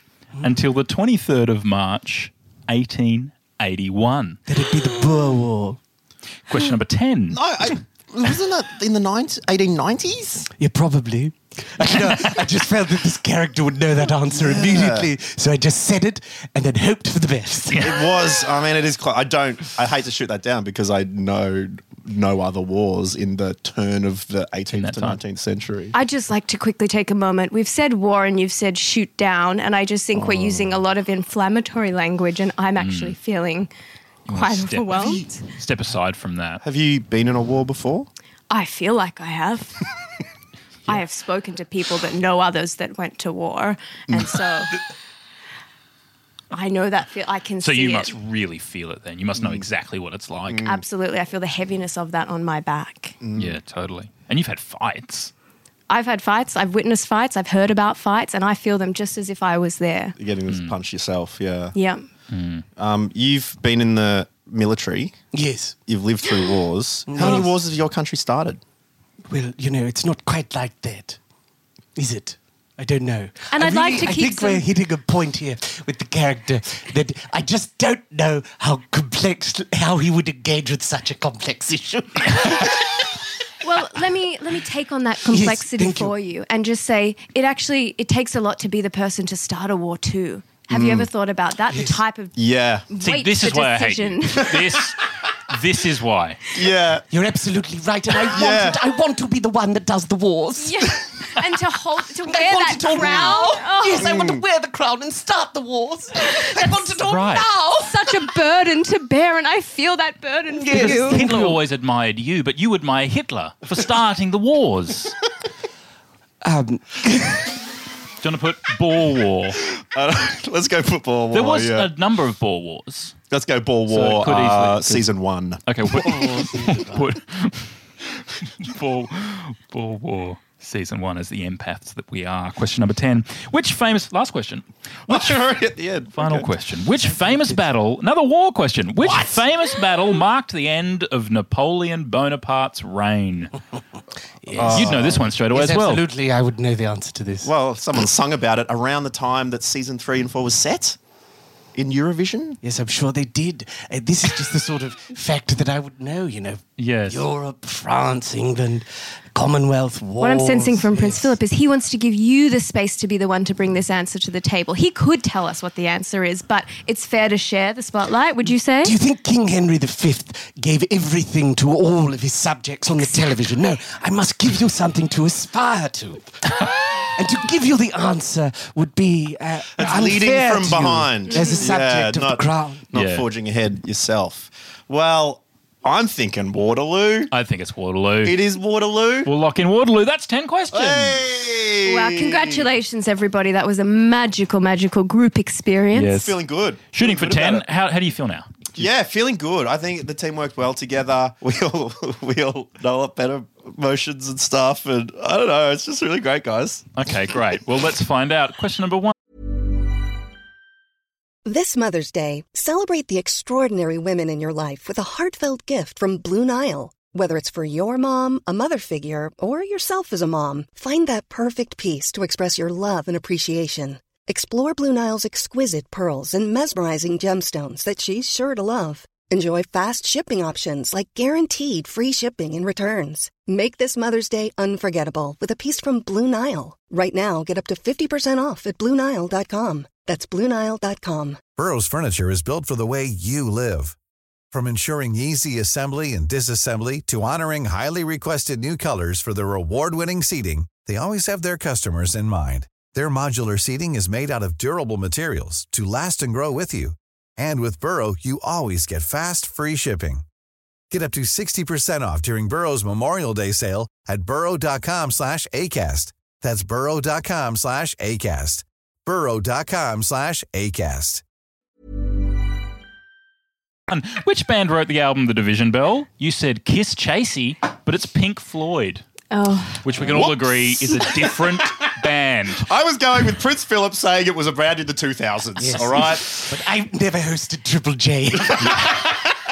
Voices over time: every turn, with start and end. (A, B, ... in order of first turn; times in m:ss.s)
0:00.4-0:04.4 A
0:04.5-0:05.8 B
0:06.5-0:07.4 A
0:07.3-0:10.5 C
0:10.5-0:18.0 B
0:14.3-0:15.1 C
0:17.7-0:18.1 A
0:17.8-0:25.9 C
0:24.7-0:25.2 A
0:25.9-0:33.7 D
0:30.1-0:30.8 C
0:32.8-0:33.2 A
0:34.3-0:36.6 A
0:34.3-0:35.4 D
0:35.0-0:35.2 C
0:36.6-0:38.1 C
0:38.5-0:39.8 D
0:40.9-0:44.8 D
0:44.1-0:44.4 C
0:46.5-0:48.1 D
0:47.6-0:50.6 A
0:49.4-0:49.6 C
0:50.5-0:50.8 C
0:50.6-0:53.2 D
0:53.2-0:53.6 C
0:53.4-0:55.3 A
0:55.9-1:00.2 D
1:00.2-1:01.8 C
1:00.5-1:00.8 A
1:01.7-1:02.0 D
1:02.3-1:02.6 A
1:02.8-1:05.2 C
1:05.3-1:05.8 B
1:05.8-1:08.6 C
1:07.1-1:07.5 B
1:09.3-1:11.2 B
1:11.9-1:22.8 B
1:13.5-1:14.6 D
1:23.6-1:32.4 D
1:25.3-1:26.1 B
1:30.7-1:31.1 C
1:32.4-1:32.9 C
1:32.9-1:34.6 D
1:33.0-1:36.4 A
1:36.5-1:37.0 C
1:37.1-1:41.0 B
1:38.3-1:38.8 C
1:40.6-1:44.1 D
1:42.2-1:48.1 B
1:44.0-1:44.4 C
1:46.2-1:47.0 D
1:47.0-1:47.5 A
1:47.8-1:51.3 D
1:50.5-1:51.6 B
1:50.7-1:55.2 A
1:56.4-1:57.6 B
1:58.2-1:59.6 A
1:59.8-2:01.9 C
2:01.3-2:03.2 A
2:03.3-2:05.6 C
2:03.9-2:05.1 A
2:05.6-2:15.5 A
2:05.9-2:07.1 B
2:15.1-2:16.5 C
2:16.1-2:23.5 A
2:17.1-2:17.6 B
2:19.0-2:19.4 B
2:24.4-2:27.5 B
2:24.5-2:25.3 C
2:24.5-2:26.0 A
2:27.4-2:31.0 C
2:31.7-2:32.6 C
2:32.6-2:41.4 B
2:36.8-2:37.2 A
2:40.2-2:49.0 D
2:48.8-3:02.9 B
2:59.8-3:07.3 C
3:01.3-3:01.6 D
3:02.9-3:03.2 A
3:07.3-3:08.4 A
3:08.2-3:09.3 C
3:09.2-3:11.2 A
3:10.7-3:12.6 C
3:11.8-3:16.1 D
3:15.9-3:16.4 A
3:16.1-3:17.6 C
3:16.9-3:18.9 A
3:18.8-3:26.9 C
3:27.0-3:29.1 A
3:31.4-4:01.4 E
4:01.6-4:03.9 F
4:04.5-4:20.2 F
4:20.9-4:31.2 F
4:33.9-4:39.0 A
4:39.3-4:39.9 D
4:39.8-4:42.7 A
4:40.0-4:41.8 C
4:42.6-4:46.5 C
4:45.6-4:49.0 B
4:48.6-4:49.3 C